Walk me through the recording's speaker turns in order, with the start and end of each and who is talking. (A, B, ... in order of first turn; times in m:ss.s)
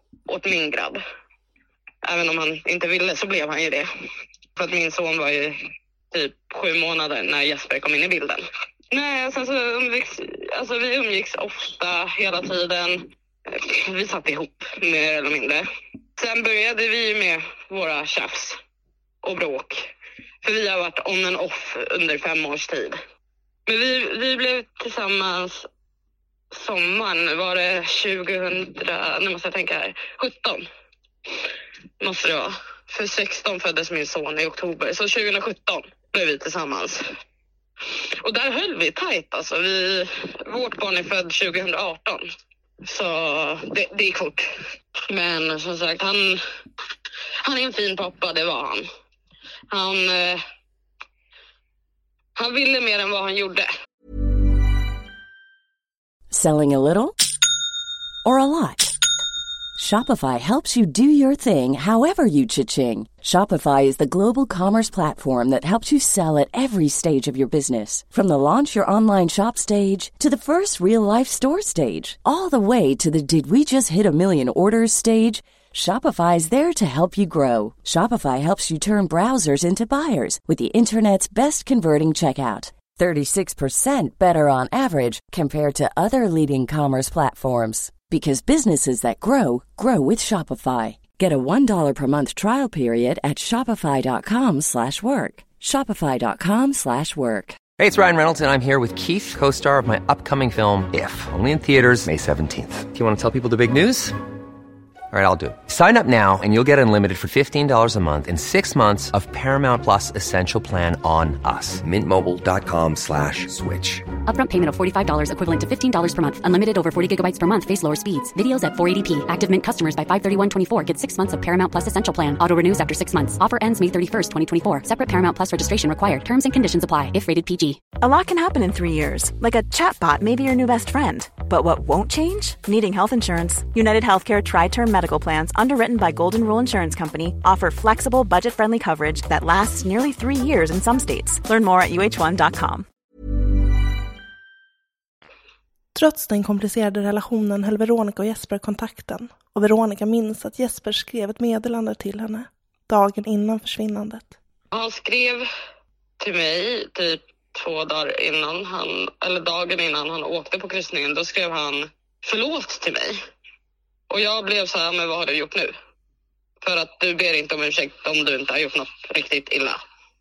0:00.3-0:01.0 A
0:02.0-0:03.9 A
0:04.6-0:05.6 A
0:06.1-0:15.6 A
0:16.2-0:18.6 A
0:19.2-0:19.8 A
0:20.4-0:23.0 A
0:23.7-0:25.7 A
0:26.5-0:30.6 A
0:32.0-0:37.0 A
0:38.2-0:42.2 A
0:42.8-0:44.5 A
0:45.1-0:46.4 A
0:47.4-0:48.9 A
0:49.7-0:50.4 A
0:52.4-0:53.7 A
0:56.3-0:57.2 B
0:58.2-0:59.0 B
0:59.8-1:37.6 B
1:37.8-1:44.2 C
1:45.1-1:54.0 C
1:54.3-2:07.9 D
2:07.9-2:22.8 E
2:25.9-2:34.4 F
2:34.7-2:35.4 A
2:36.2-2:43.2 A
2:44.1-2:45.7 A
2:46.6-2:49.8 A